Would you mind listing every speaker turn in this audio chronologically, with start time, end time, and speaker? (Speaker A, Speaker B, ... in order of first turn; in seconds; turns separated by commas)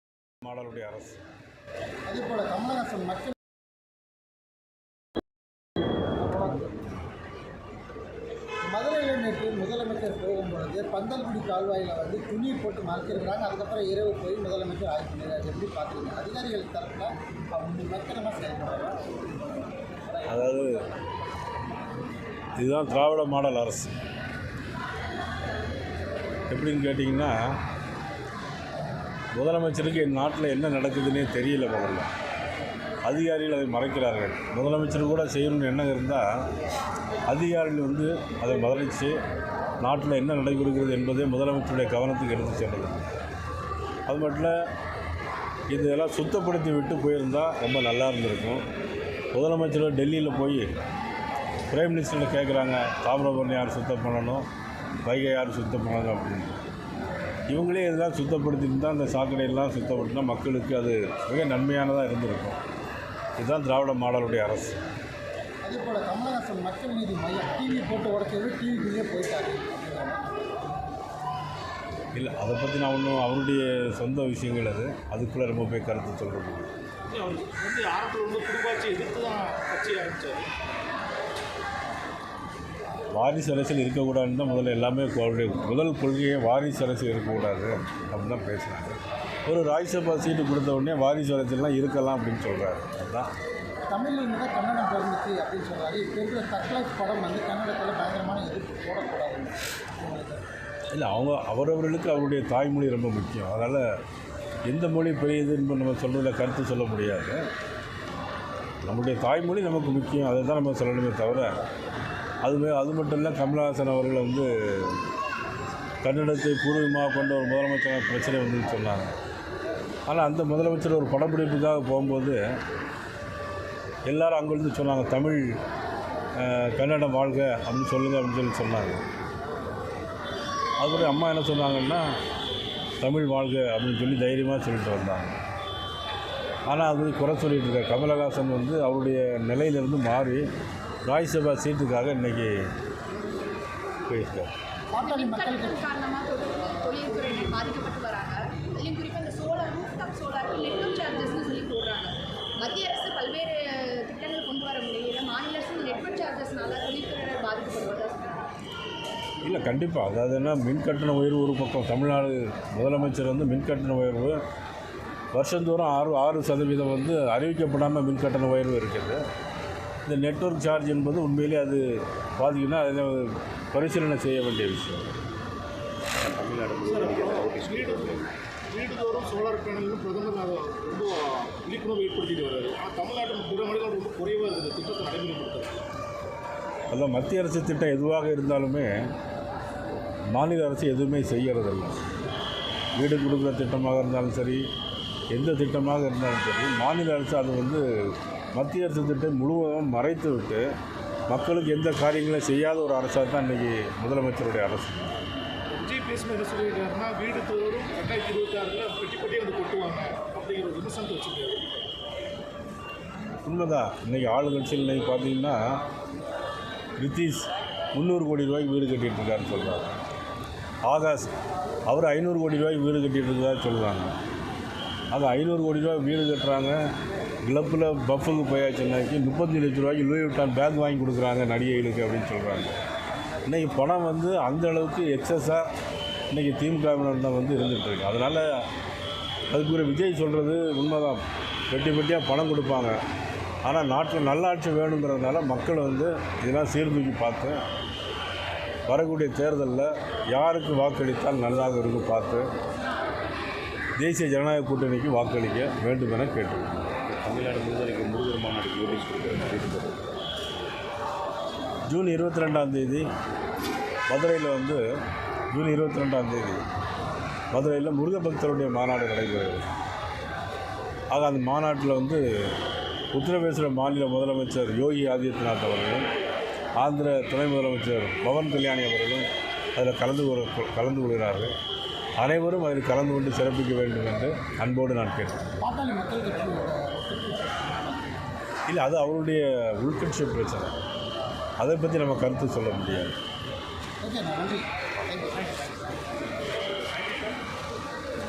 Speaker A: 0.4-1.2, Speaker B: 2.1-3.4, Speaker B: 6.2-6.7, Speaker B: 8.6-19.2, Speaker A: 20.3-20.7, Speaker A: 22.6-23.9, Speaker A: 26.5-27.5, Speaker A: 29.3-32.1, Speaker A: 33.0-36.4, Speaker A: 37.3-39.2, Speaker A: 39.8-43.0, Speaker A: 44.1-44.6, Speaker A: 45.7-48.6, Speaker A: 49.3-50.7, Speaker A: 51.7-54.5, Speaker A: 55.0-56.6, Speaker A: 57.5-62.6, Speaker A: 63.4-64.8, Speaker B: 65.6-70.6, Speaker A: 72.1-76.7, Speaker C: 77.1-80.5, Speaker A: 83.1-93.3, Speaker B: 93.9-100.4, Speaker A: 100.9-103.8, Speaker A: 104.7-107.4, Speaker A: 108.8-111.5, Speaker A: 112.4-115.0, Speaker A: 116.0-119.1, Speaker A: 120.1-122.4, Speaker A: 124.0-125.5, Speaker A: 126.3-129.0, Speaker A: 130.8-132.1, Speaker A: 133.0-135.3, Speaker A: 136.7-140.4, Speaker A: 141.1-142.5, Speaker A: 144.1-144.5, Speaker B: 144.9-145.8, Speaker D: 145.0-158.4, Speaker A: 159.4-164.4, Speaker A: 165.3-169.2, Speaker A: 170.0-175.1, Speaker E: 176.2-178.3, Speaker C: 176.9-178.0, Speaker C: 178.7-185.8, Speaker A: 186.9-189.1, Speaker A: 190.3-192.0, Speaker A: 192.9-194.7, Speaker A: 195.3-200.7, Speaker A: 201.3-205.1, Speaker C: 205.8-211.8, Speaker A: 213.4-215.8, Speaker A: 217.0-220.0, Speaker A: 220.8-221.3, Speaker A: 221.9-224.1, Speaker A: 225.1-226.9, Speaker A: 227.4-232.7, Speaker A: 233.5-235.6, Speaker A: 236.3-238.6, Speaker A: 239.5-243.0, Speaker A: 243.6-247.6, Speaker A: 248.9-252.4, Speaker A: 254.0-256.9, Speaker E: 257.2-260.0, Speaker A: 261.9-263.1, Speaker A: 264.1-264.8, Speaker A: 265.5-266.6, Speaker A: 267.5-269.6, Speaker A: 271.1-272.5, Speaker A: 273.1-276.1, Speaker A: 276.8-281.5, Speaker A: 282.2-285.5, Speaker B: 285.6-288.2, Speaker A: 288.7-290.7, Speaker A: 291.6-293.1, Speaker B: 294.0-295.8